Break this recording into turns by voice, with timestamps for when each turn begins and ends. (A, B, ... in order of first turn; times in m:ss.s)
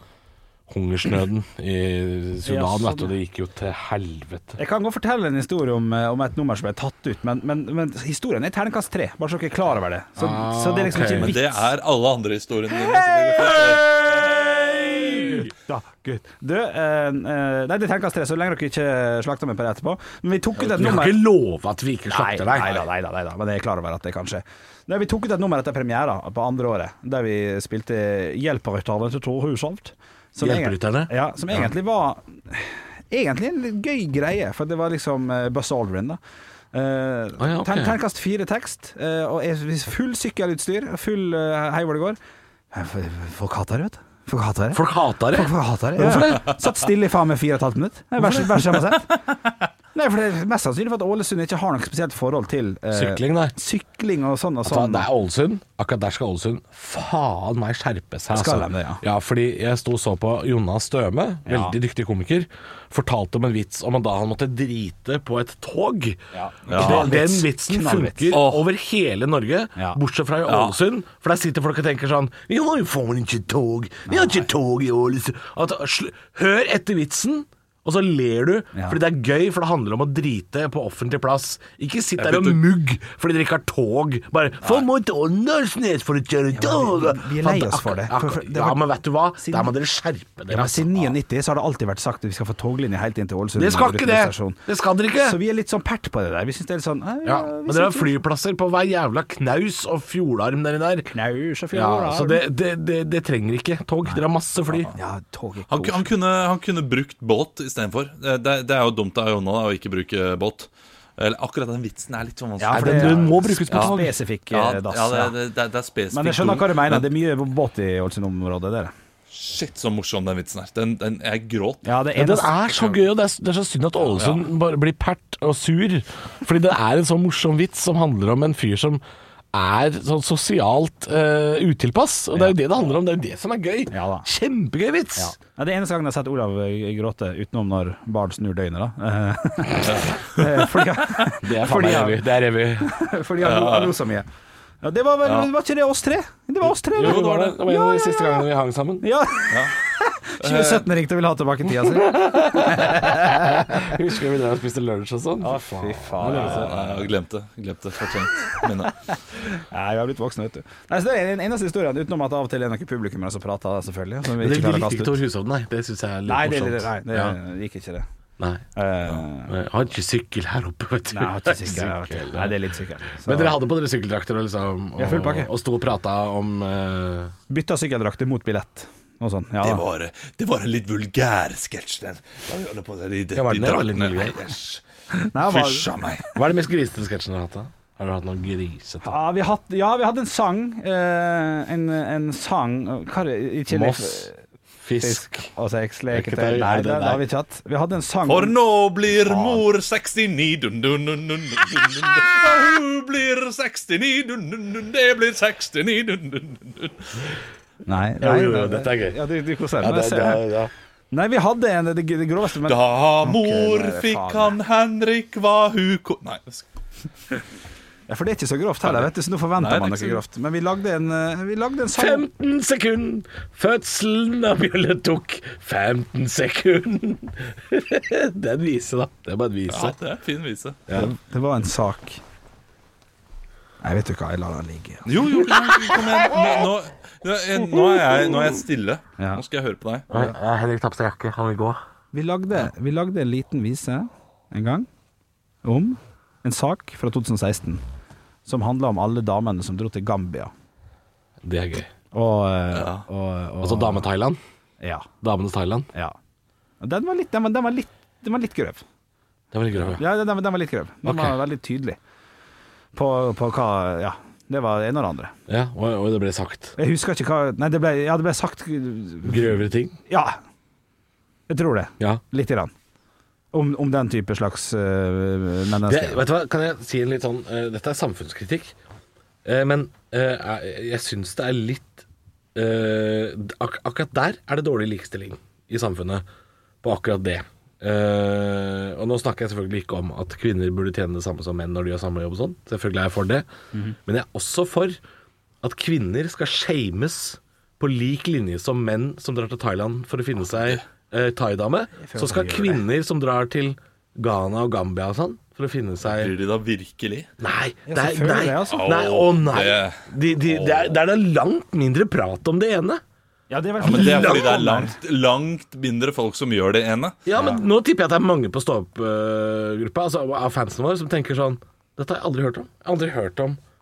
0:00.7-0:04.6 A
0:02.4-0:03.1 B
0:04.6-0:11.6 B
0:10.2-0:11.4 A
0:11.2-0:15.4 C
0:13.3-0:15.5 A
0:15.7-0:21.2 B
0:20.6-0:22.9 A
0:22.1-0:36.2 B
0:30.4-0:31.7 A
0:36.7-0:42.2 B
0:37.4-0:38.0 A
0:42.7-0:49.1 B
0:44.7-0:46.5 A
0:49.9-0:55.1 B
0:52.9-0:53.5 A
0:54.6-1:31.2 A
0:58.3-0:59.0 B
1:01.4-1:01.7 B
1:06.3-1:08.4 B
1:06.7-1:07.1 C
1:08.3-1:08.7 C
1:10.5-1:10.8 C
1:14.1-1:14.5 B
1:18.7-1:19.0 B
1:22.2-1:22.6 C
1:26.5-1:28.8 B
1:29.3-1:29.7 B
1:30.5-1:34.6 B
1:33.5-1:35.4 A
1:35.2-1:38.2 B
1:37.2-1:41.1 A
1:41.1-1:42.4 B
1:41.7-1:44.9 A
1:44.7-1:44.9 C
1:44.9-1:46.1 B
1:45.7-1:57.1 C
1:52.6-1:55.3 B
1:52.7-1:54.1 A
1:56.1-1:58.9 B
1:59.3-2:01.8 C
2:01.8-2:02.5 B
2:02.2-2:09.0 A
2:02.7-2:03.0 C
2:04.2-2:04.4 C
2:09.5-2:15.4 A
2:13.9-2:14.3 B
2:15.2-2:22.3 B
2:19.9-2:20.6 C
2:21.4-2:22.9 A
2:22.8-2:24.2 B
2:23.4-2:24.0 C
2:24.8-2:28.4 B
2:25.2-2:25.5 C
2:26.9-2:29.1 A
2:27.0-2:27.4 C
2:29.0-2:33.9 B
2:29.5-2:29.7 C
2:30.4-2:30.9 C
2:31.7-2:37.1 A
2:35.4-2:36.7 B
2:36.2-2:38.9 C
2:39.3-2:45.2 B
2:44.3-2:47.4 A
2:46.2-2:48.0 B
2:48.4-2:48.6 A
2:48.8-2:49.5 B
2:49.5-2:52.6 A
2:51.1-2:53.6 B
2:53.2-2:57.3 A
2:55.0-2:55.5 B
2:57.5-2:59.8 B
2:59.6-3:06.3 C
3:03.3-3:04.5 A
3:05.3-3:05.9 B
3:06.3-3:09.2 A
3:09.0-3:14.4 B
3:13.7-3:14.3 A
3:14.8-3:15.5 A
3:15.0-3:18.5 B
3:16.1-3:17.2 A
3:18.2-3:27.3 C
3:19.2-3:19.6 B
3:27.9-3:30.4 B
3:28.2-3:29.2 A
3:29.8-3:30.7 A
3:31.1-3:34.5 B
3:32.6-3:36.6 C
3:38.1-3:42.2 B
3:38.8-3:40.2 C
3:41.9-3:50.0 A
3:49.7-3:50.8 C
3:50.9-3:51.1 A
3:50.9-3:52.2 B
3:53.8-3:55.1 B
3:55.0-4:00.3 C
3:57.9-3:58.2 A
4:00.1-4:01.8 A
4:02.1-4:04.9 B
4:05.6-4:07.8 B
4:08.4-4:10.5 B
4:11.4-4:11.9 A
4:12.1-4:14.1 B
4:12.7-4:13.0 C
4:13.6-4:14.4 A
4:14.8-4:15.1 B
4:15.2-4:15.9 A
4:16.8-4:18.8 B
4:19.5-4:20.0 A
4:20.0-4:22.0 B
4:21.0-4:21.4 A
4:22.9-4:25.3 B
4:25.5-4:26.7 A
4:26.8-4:29.5 B
4:29.2-4:30.0 A
4:30.1-4:30.4 B
4:31.5-4:32.7 B
4:33.5-4:36.2 B
4:35.8-4:38.7 A
4:39.4-4:46.2 A
4:46.8-4:53.4 A
4:54.0-4:55.0 A
4:55.6-5:06.3 A
5:02.0-5:02.8 B
5:06.0-5:07.3 C
5:07.4-5:13.0 A
5:07.8-5:08.9 B
5:08.7-5:10.8 C
5:13.5-5:14.9 B
5:13.8-5:17.2 C
5:13.8-5:14.6 A
5:17.2-5:23.6 A
5:17.3-5:17.6 B